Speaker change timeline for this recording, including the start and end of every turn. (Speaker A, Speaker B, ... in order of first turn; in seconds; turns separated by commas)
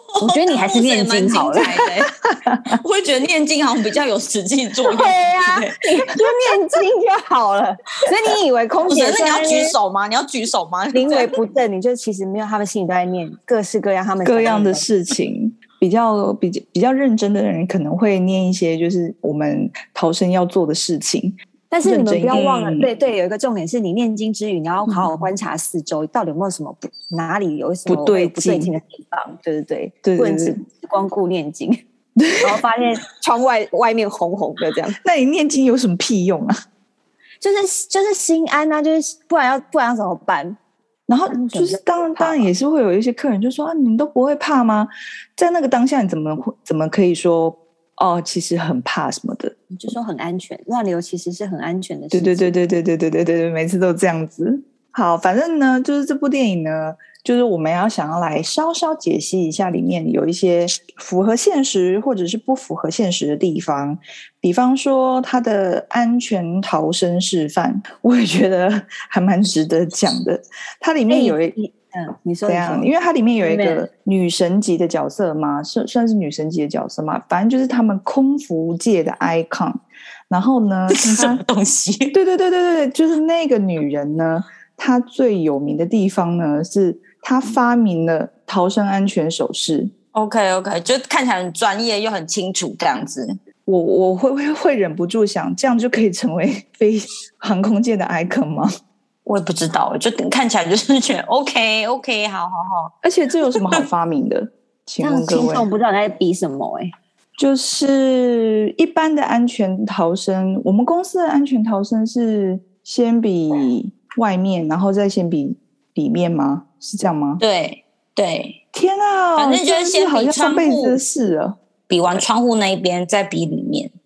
Speaker A: 0.1-2.1, Speaker B: 0.2-1.9, Speaker C: 2.3-2.8, Speaker A: 2.6-6.1, Speaker B: 4.9-9.7, Speaker A: 8.9-11.3, Speaker B: 10.9-14.8, Speaker C: 14.2-22.9, Speaker B: 21.7-31.8, Speaker C: 27.9-28.7, Speaker C: 30.0-30.6, Speaker C: 32.2-32.6, Speaker B: 32.4-35.0, Speaker C: 35.0-36.5, Speaker B: 37.4-40.6, Speaker C: 41.1-49.6, Speaker B: 41.3-42.5, Speaker B: 49.7-52.5, Speaker C: 52.1-71.5, Speaker B: 71.1-72.9, Speaker C: 72.4-81.4, Speaker B: 73.4-73.8, Speaker A: 80.9-82.1, Speaker C: 82.1-89.9, Speaker A: 90.1-93.3, Speaker C: 93.7-98.7, Speaker A: 99.2-103.8, Speaker C: 103.0-105.7, Speaker B: 105.0-106.9, Speaker C: 107.4-117.4, Speaker A: 117.4-118.6, Speaker C: 118.7-121.6, Speaker A: 119.4-121.0, Speaker A: 121.9-123.9